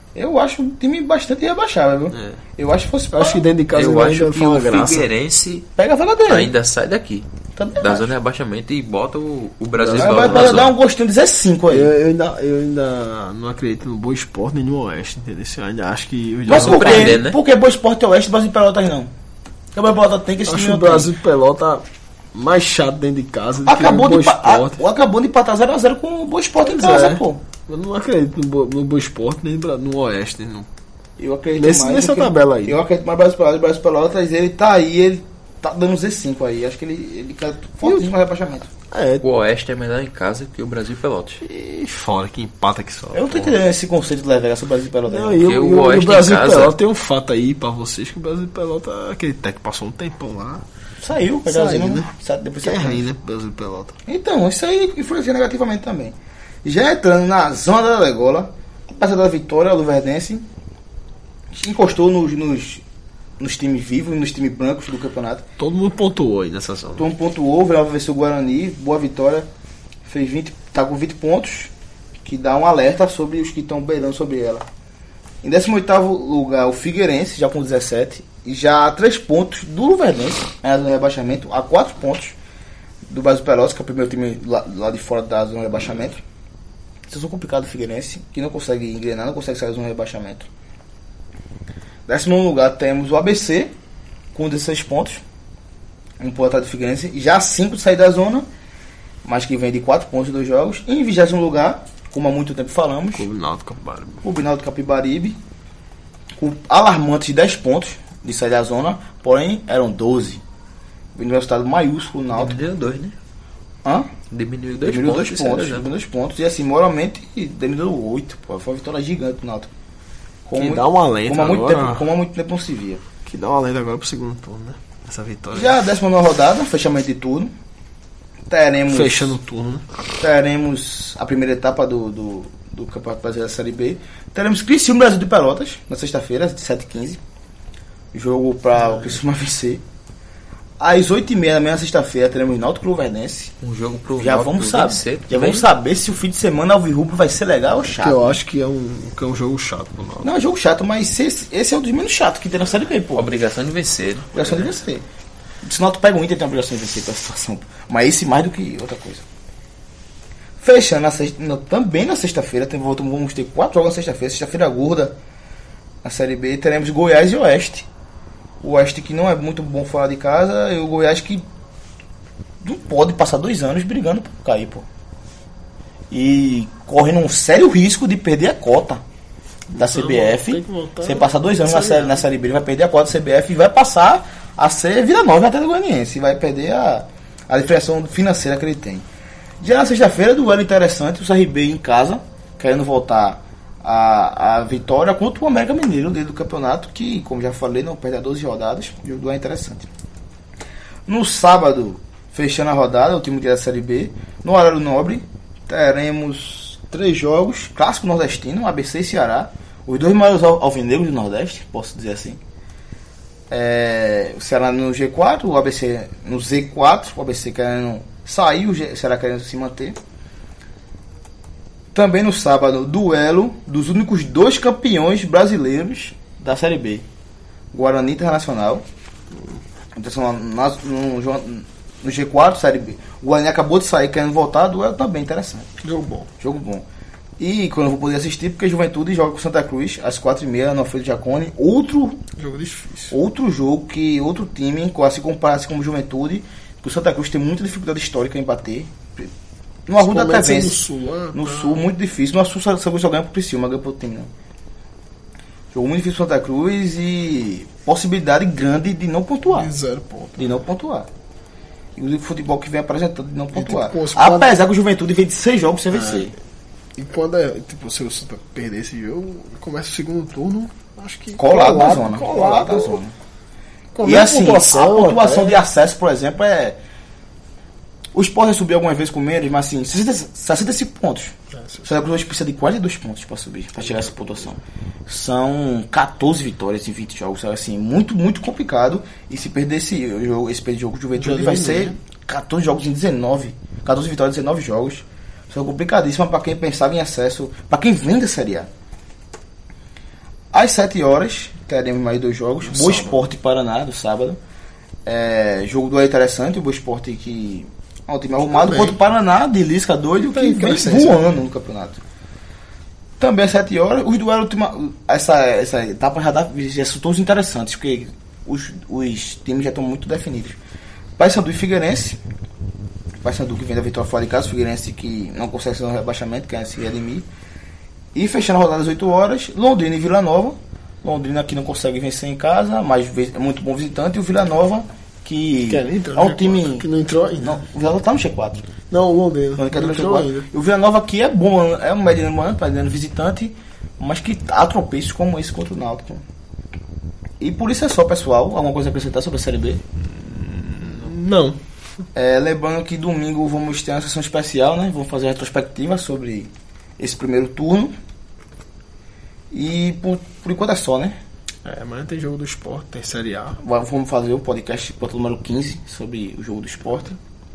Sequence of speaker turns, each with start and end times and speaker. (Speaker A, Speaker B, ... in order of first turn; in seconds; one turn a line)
Speaker A: 0.1-3.5
Speaker B: 2.1-2.4
Speaker B: 3.1-5.1
Speaker C: 3.7-5.7
Speaker A: 5.8-6.5
Speaker C: 6.3-7.3
Speaker A: 7.5-8.1
Speaker C: 7.8-10.7
Speaker B: 9.8-10.7
Speaker A: 9.9-11.9
Speaker B: 11.7-17.2
Speaker A: 16.5-19.1
Speaker C: 16.5-17.4
Speaker A: 19.8-21.1
Speaker B: 20.4-24.8
Speaker A: 23.6-27.4
Speaker B: 26.6-30.7
Speaker A: 31.2-38.7
Speaker B: 31.6-32.8
Speaker B: 37.8-38.1
Speaker B: 38.9-39.2
Speaker C: 39.2-41.4
Speaker B: 41.4-43.6
Speaker A: 43.1-45.5
Speaker B: 45.1-50.6
Speaker C: 45.4-46.7
Speaker A: 51.0-53.1
Speaker B: 51.5-52.1
Speaker B: 52.6-54.0
Speaker A: 54.0-60.5
Speaker A: 61.5-62.8
Speaker A: 63.4-65.4
Speaker B: 65.6-67.1
Speaker A: 67.0-69.5
Speaker A: 70.0-71.7
Speaker A: 72.2-74.7
Speaker A: 75.4-82.3
Speaker A: 83.1-86.2
Speaker A: 87.1-90.5
Speaker A: 92.1-93.7
Speaker A: 94.3-95.2
Speaker A: 96.2-98.5
Speaker A: 99.2-103.3
Speaker B: 103.1-104.2
Speaker A: 104.2-105.4
Speaker A: 106.4-110.4
Speaker A: 111.1-112.6
Speaker C: 112.3-113.1
Speaker C: 114.3-115.9
Speaker A: 114.8-119.7
Speaker A: 120.5-123.0
Speaker B: 120.6-122.1
Speaker B: 123.2-125.8
Speaker A: 125.5-127.5
Speaker A: 128.5-129.3
Speaker B: 128.9-129.8
Speaker A: 130.2-137.2
Speaker A: 138.1-139.8
Speaker A: 140.8-143.5
Speaker C: 143.6-145.7
Speaker A: 144.2-148.4
Speaker B: 148.0-150.3
Speaker A: 150.2-153.3
Speaker C: 153.1-154.7
Speaker A: 154.3-155.0
Speaker A: 155.6-159.2
Speaker A: 160.6-165.1
Speaker A: 166.0-167.9
Speaker A: 168.6-171.4
Speaker A: 172.6-174.8
Speaker A: 176.1-179.0
Speaker B: 179.7-182.2
Speaker A: 179.7-189.0
Speaker A: 189.6-199.9
Speaker A: 201.1-212.4
Speaker A: 213.5-220.0
Speaker A: 221.9-227.0
Speaker A: 227.7-228.8
Speaker A: 229.9-235.7
Speaker B: 235.8-236.3
Speaker A: 236.4-236.8
Speaker A: 237.4-242.2
Speaker B: 242.3-243.2
Speaker A: 243.1-249.3
Speaker A: 249.9-254.3
Speaker B: 250.0-251.8
Speaker A: 255.7-259.7
Speaker B: 259.4-260.6
Speaker A: 260.4-261.1
Speaker A: 261.9-266.3
Speaker B: 263.5-264.6
Speaker B: 265.9-266.3
Speaker B: 266.9-273.0
Speaker A: 271.4-273.1
Speaker B: 273.9-275.6
Speaker A: 274.0-276.8
Speaker A: 278.1-281.3
Speaker B: 281.5-282.0
Speaker A: 281.8-298.7
Speaker B: 291.1-291.9
Speaker A: 300.5-304.4
Speaker B: 302.6-303.2
Speaker A: 305.1-312.0
Speaker B: 308.4-309.0
Speaker B: 310.2-311.2
Speaker A: 313.2-320.6
Speaker A: 321.2-322.2
Speaker A: 323.2-327.2
Speaker A: 328.1-336.9
Speaker B: 335.7-337.6
Speaker A: 337.4-338.7
Speaker B: 338.9-340.5
Speaker A: 339.6-346.2
Speaker A: 347.4-349.8
Speaker B: 350.1-351.6
Speaker A: 352.1-357.9
Speaker A: 359.5-361.2
Speaker B: 361.6-363.6
Speaker A: 363.6-367.2